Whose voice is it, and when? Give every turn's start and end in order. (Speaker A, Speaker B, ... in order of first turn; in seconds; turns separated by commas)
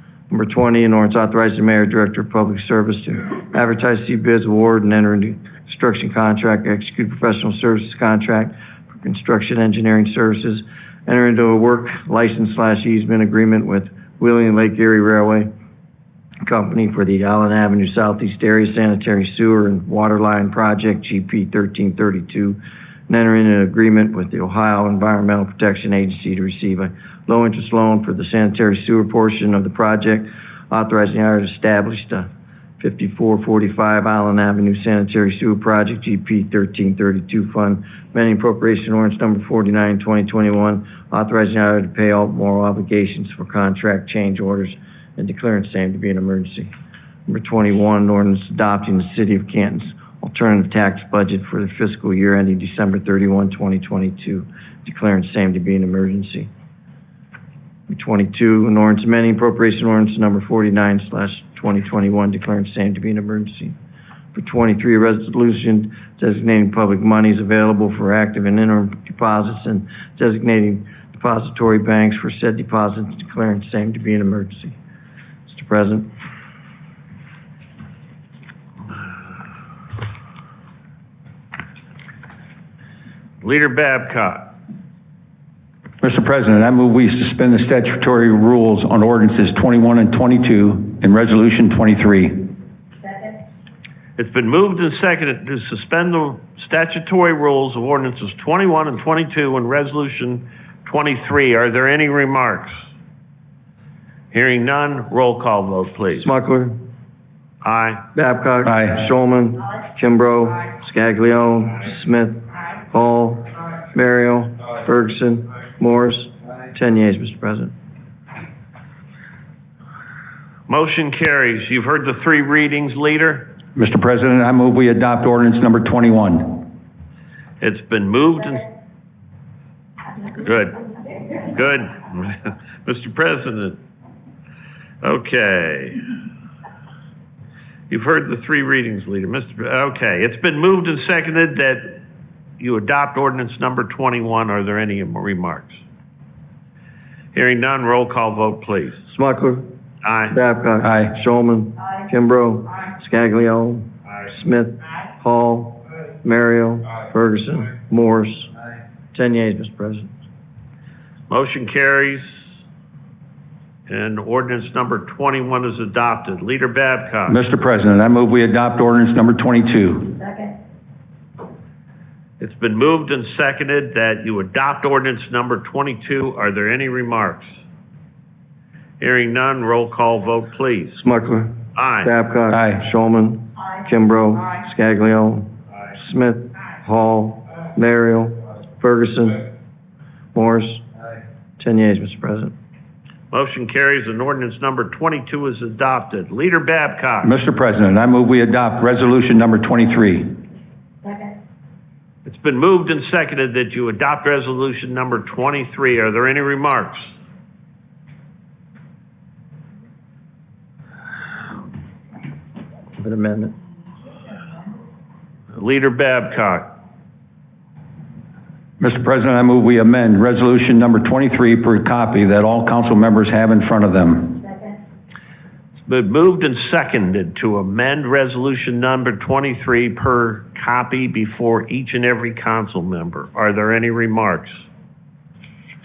Speaker A: 0.3-15.5, Speaker A: 16.4-32.3, Speaker A: 32.8-46.7, Speaker A: 47.3-56.5, Speaker A: 57.9-63.8, Speaker A: 64.3-74.8, Speaker A: 75.5-76.1, Speaker B: 83.4-84.5, Speaker C: 86.0-92.5, Speaker B: 94.2-102.7, Speaker B: 104.3-106.3, Speaker A: 106.2-106.8, Speaker B: 107.6-108.0, Speaker A: 108.1-117.7, Speaker C: 108.6-109.0, Speaker B: 120.7-123.5, Speaker C: 123.7-126.7, Speaker B: 127.6-128.7, Speaker B: 130.3-133.8, Speaker B: 135.0-136.0, Speaker B: 137.9-142.0, Speaker B: 142.6-145.8, Speaker B: 147.3-149.0, Speaker A: 149.1-149.7, Speaker B: 150.0-150.3, Speaker A: 150.3-158.5, Speaker C: 150.8-151.1, Speaker A: 159.1-160.1, Speaker B: 161.3-162.2, Speaker B: 163.9-167.4, Speaker C: 167.2-170.2, Speaker B: 172.4-177.5, Speaker B: 179.0-181.0, Speaker A: 181.0-189.4, Speaker B: 181.8-182.1, Speaker C: 182.5-182.8, Speaker A: 190.3-190.8, Speaker A: 191.6-192.5, Speaker B: 193.3-197.3, Speaker C: 197.2-200.4, Speaker B: 202.2-207.1, Speaker A: 213.0-213.5, Speaker B: 215.5-216.7, Speaker C: 218.8-224.4, Speaker B: 225.8-234.6